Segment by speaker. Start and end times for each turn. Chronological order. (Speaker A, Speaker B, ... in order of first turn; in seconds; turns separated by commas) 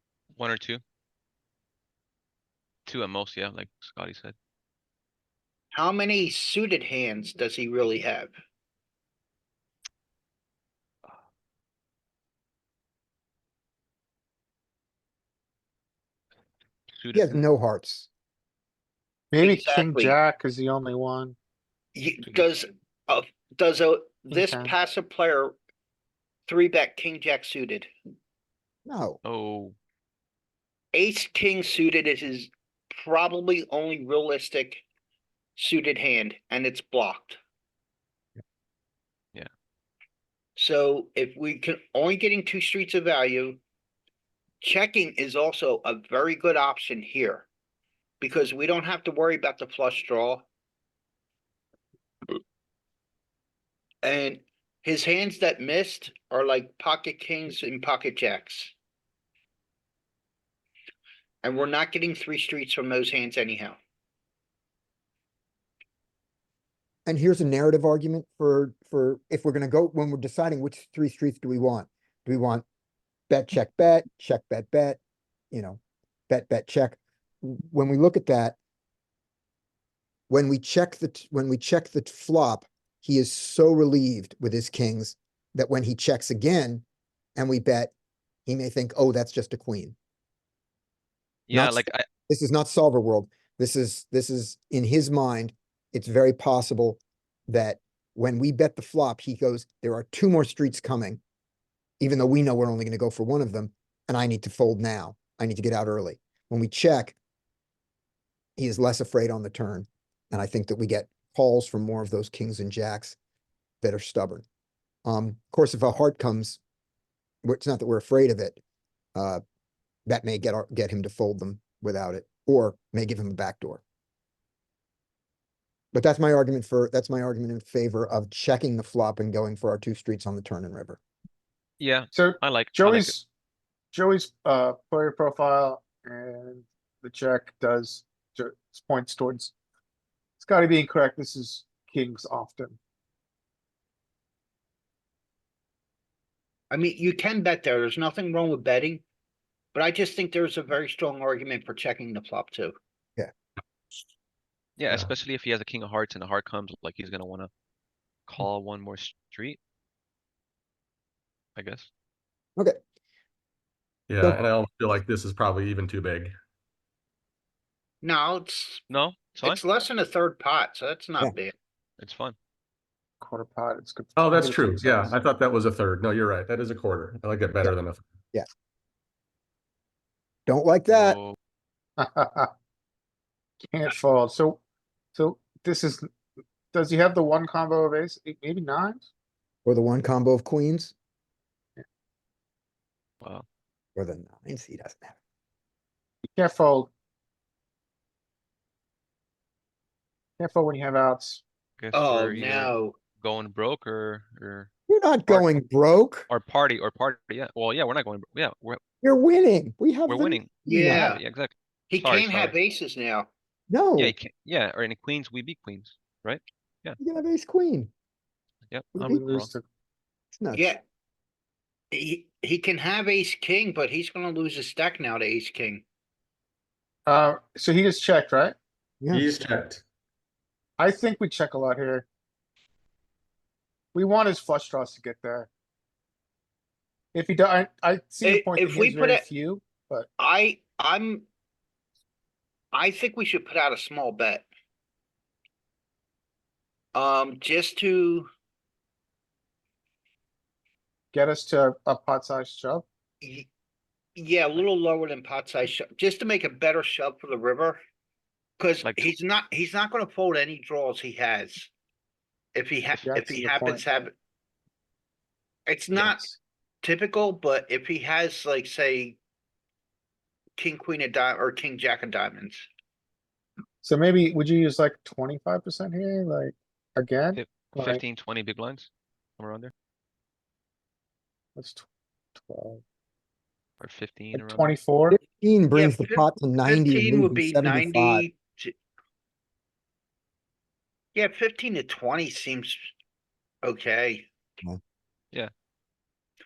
Speaker A: 0.3-0.8, Speaker A: 2.9-4.3, Speaker B: 5.7-8.3, Speaker A: 16.9-17.4, Speaker C: 17.1-18.1, Speaker D: 19.3-21.4, Speaker B: 19.4-20.2, Speaker B: 21.9-25.6, Speaker D: 24.3-24.7, Speaker B: 26.5-27.9, Speaker C: 28.9-29.2, Speaker A: 29.2-29.8, Speaker B: 30.9-34.8, Speaker B: 35.6-37.4, Speaker B: 40.6-43.6, Speaker B: 44.6-47.5, Speaker B: 48.2-50.5, Speaker B: 54.0-58.7, Speaker B: 61.4-63.8, Speaker C: 67.1-72.7, Speaker C: 73.3-75.0, Speaker C: 75.5-78.6, Speaker C: 80.3-86.8, Speaker C: 87.4-87.9, Speaker C: 88.5-90.0, Speaker A: 91.5-92.1, Speaker C: 91.5-101.2, Speaker C: 102.0-107.2, Speaker C: 108.6-113.2, Speaker C: 113.8-114.4, Speaker C: 115.0-116.6, Speaker C: 117.4-118.6, Speaker C: 119.2-119.4, Speaker C: 120.1-123.8, Speaker C: 125.9-131.0, Speaker A: 131.8-133.2, Speaker D: 132.1-133.3, Speaker D: 133.9-139.5, Speaker D: 140.4-142.8, Speaker B: 146.7-149.0, Speaker B: 149.8-152.8, Speaker A: 154.8-157.5, Speaker A: 158.3-159.6, Speaker A: 161.6-161.9, Speaker E: 164.1-166.3, Speaker B: 168.0-168.8, Speaker A: 168.9-169.6, Speaker B: 169.4-171.5, Speaker A: 172.0-172.4, Speaker D: 173.2-175.2, Speaker E: 174.2-178.1, Speaker C: 180.5-181.2, Speaker A: 180.9-181.4, Speaker D: 182.0-182.5, Speaker D: 183.6-184.6, Speaker D: 185.2-186.1, Speaker D: 186.7-189.1, Speaker C: 189.7-190.9, Speaker A: 193.2-193.5, Speaker C: 194.0-195.2, Speaker D: 196.3-196.9, Speaker D: 200.4-201.4, Speaker A: 201.8-204.7, Speaker B: 201.9-203.0, Speaker C: 204.9-206.3, Speaker A: 206.3-208.8, Speaker C: 209.0-211.1, Speaker A: 210.1-212.6, Speaker B: 210.7-211.2, Speaker B: 211.9-213.3, Speaker C: 213.7-214.2, Speaker A: 214.0-217.0, Speaker C: 217.0-217.9, Speaker A: 218.7-219.5, Speaker C: 219.0-219.2, Speaker D: 219.1-219.7, Speaker C: 220.4-220.7, Speaker B: 220.5-220.8, Speaker B: 221.9-225.8, Speaker D: 227.1-228.6, Speaker C: 229.0-229.3, Speaker E: 229.1-229.8, Speaker D: 230.8-232.1, Speaker D: 233.9-235.5, Speaker D: 237.1-240.1, Speaker B: 238.2-239.3, Speaker B: 240.2-241.3, Speaker B: 242.7-244.5, Speaker B: 246.9-248.3, Speaker D: 251.1-252.8, Speaker B: 253.2-253.5, Speaker B: 254.2-257.8, Speaker B: 258.6-261.7, Speaker A: 258.8-259.1, Speaker B: 262.6-264.1, Speaker D: 263.0-263.8, Speaker B: 265.7-266.3, Speaker D: 266.1-266.4, Speaker B: 266.8-269.2, Speaker B: 270.6-272.7, Speaker D: 273.8-278.0, Speaker A: 277.4-279.7, Speaker D: 281.6-282.8, Speaker A: 283.8-284.7, Speaker D: 284.3-285.2, Speaker C: 285.1-288.2, Speaker B: 285.8-288.7, Speaker B: 291.1-292.9, Speaker B: 293.6-294.3